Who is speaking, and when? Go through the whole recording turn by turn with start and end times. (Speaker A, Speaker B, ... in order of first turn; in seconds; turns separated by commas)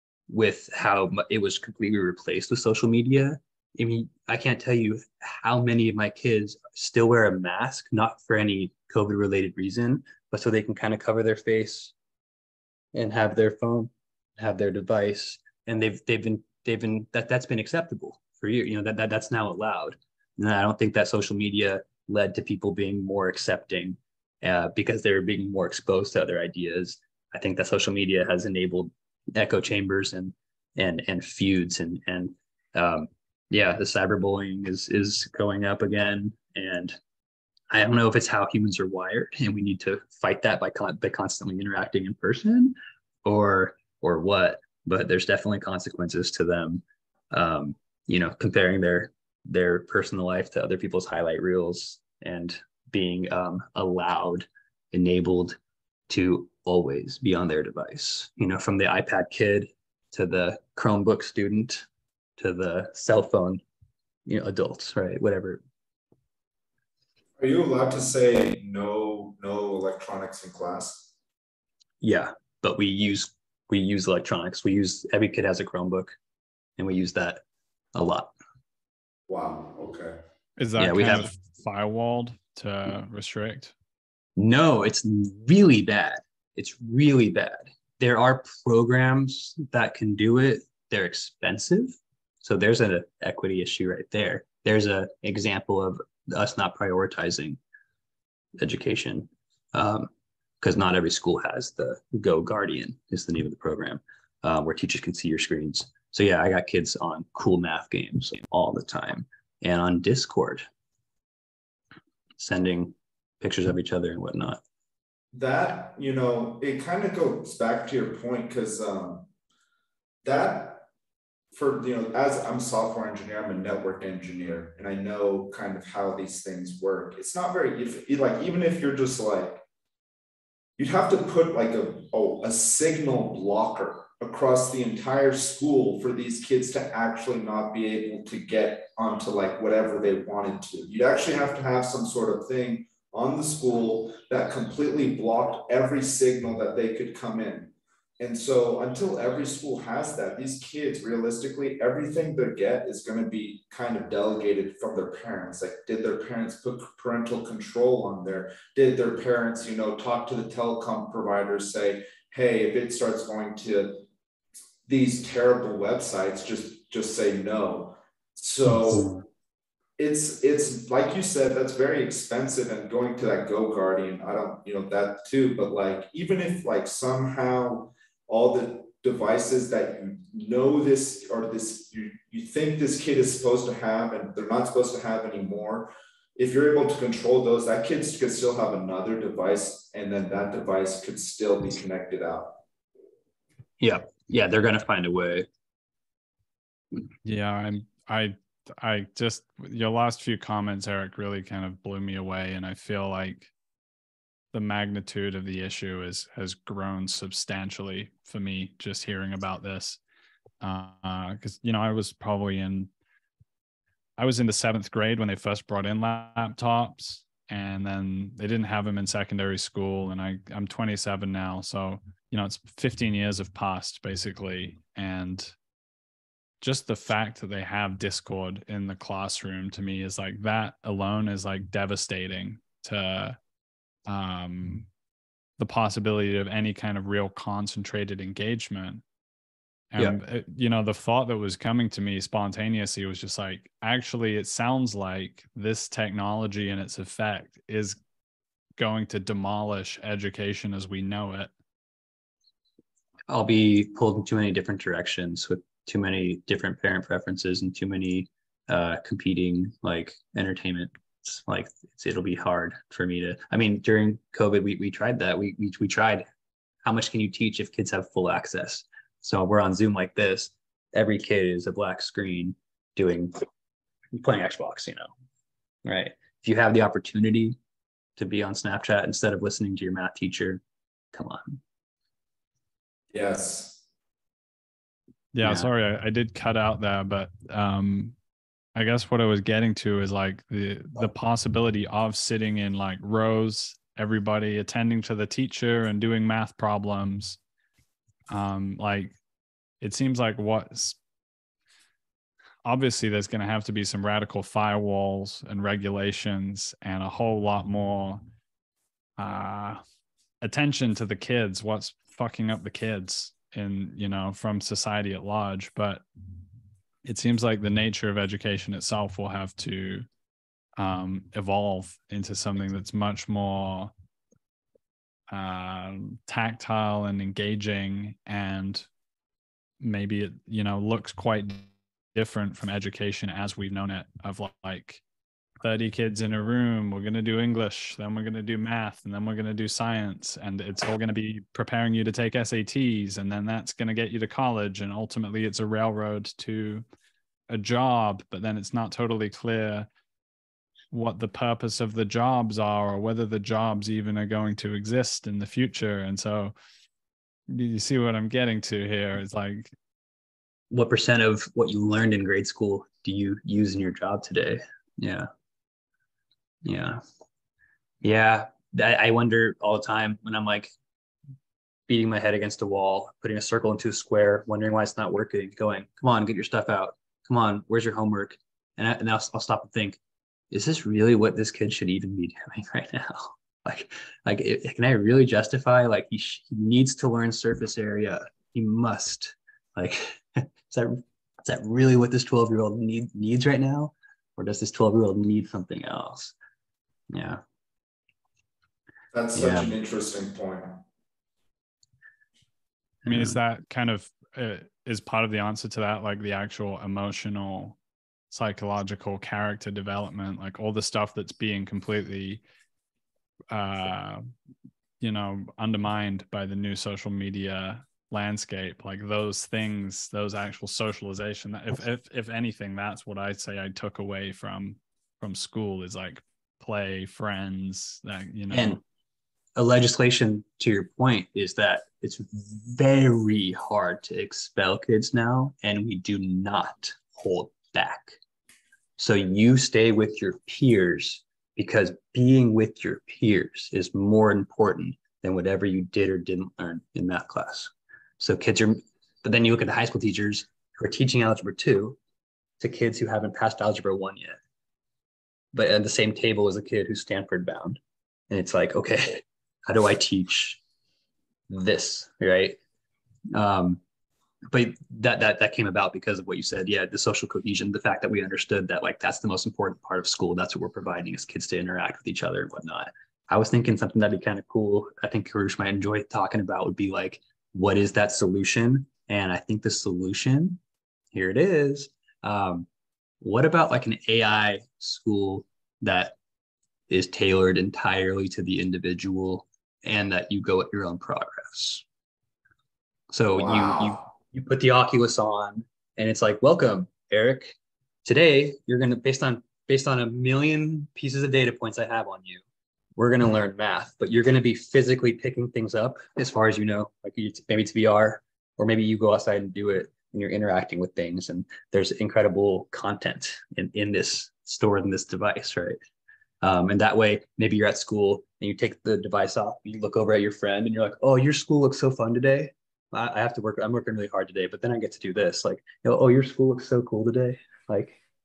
Speaker A: 0.3-11.9, Speaker A: 12.9-37.0, Speaker A: 37.7-55.6, Speaker A: 56.1-61.9, Speaker A: 62.4-63.6, Speaker A: 64.3-65.6, Speaker B: 67.4-71.1, Speaker A: 72.0-76.2, Speaker A: 76.8-77.4, Speaker A: 77.9-78.3, Speaker B: 79.3-80.2, Speaker C: 80.6-83.7, Speaker A: 80.8-81.3, Speaker A: 84.4-97.6, Speaker A: 98.6-100.1, Speaker A: 100.6-110.7, Speaker A: 112.4-114.6, Speaker B: 115.3-119.3, Speaker B: 120.2-120.9, Speaker B: 121.5-129.6, Speaker B: 130.8-164.1, Speaker B: 164.8-169.1, Speaker A: 168.8-169.2, Speaker B: 170.0-192.6, Speaker A: 193.8-195.5, Speaker C: 197.2-203.5, Speaker C: 204.5-210.0, Speaker C: 210.6-212.9, Speaker C: 214.2-225.6, Speaker C: 226.6-233.4, Speaker C: 234.1-234.9, Speaker C: 235.6-239.0, Speaker C: 239.9-248.0, Speaker C: 248.8-251.5, Speaker A: 253.3-266.2, Speaker A: 266.8-273.4, Speaker A: 274.1-275.1, Speaker A: 275.9-277.6, Speaker A: 278.2-280.6, Speaker A: 281.1-281.6, Speaker B: 283.1-283.8, Speaker C: 285.3-288.1, Speaker C: 288.8-297.4, Speaker C: 298.3-299.2, Speaker C: 299.8-301.0, Speaker C: 302.6-308.2, Speaker C: 309.2-309.8, Speaker C: 310.4-316.1, Speaker C: 317.1-320.1, Speaker C: 320.8-323.9, Speaker C: 325.3-328.9, Speaker C: 329.8-335.0, Speaker C: 335.6-346.9, Speaker C: 347.5-349.9, Speaker C: 350.9-356.6, Speaker C: 357.5-359.7, Speaker A: 360.7-365.3, Speaker A: 366.6-367.0, Speaker A: 368.0-370.7, Speaker A: 371.9-380.0, Speaker A: 380.5-396.3, Speaker A: 397.1-397.4, Speaker B: 399.1-400.8, Speaker A: 399.4-399.7, Speaker C: 403.1-407.8, Speaker A: 403.1-403.4, Speaker C: 408.3-412.4, Speaker C: 413.5-414.3, Speaker C: 415.0-428.8, Speaker A: 428.5-428.8, Speaker A: 429.6-438.2, Speaker A: 439.0-452.0, Speaker A: 452.6-454.4, Speaker A: 455.5-457.8, Speaker A: 458.3-460.6, Speaker A: 461.5-462.6, Speaker A: 463.3-463.8, Speaker A: 464.5-480.6, Speaker A: 481.1-482.7, Speaker A: 483.2-486.2, Speaker A: 486.9-491.8, Speaker A: 493.1-502.4, Speaker B: 493.3-494.0, Speaker A: 503.0-515.8, Speaker A: 516.4-528.0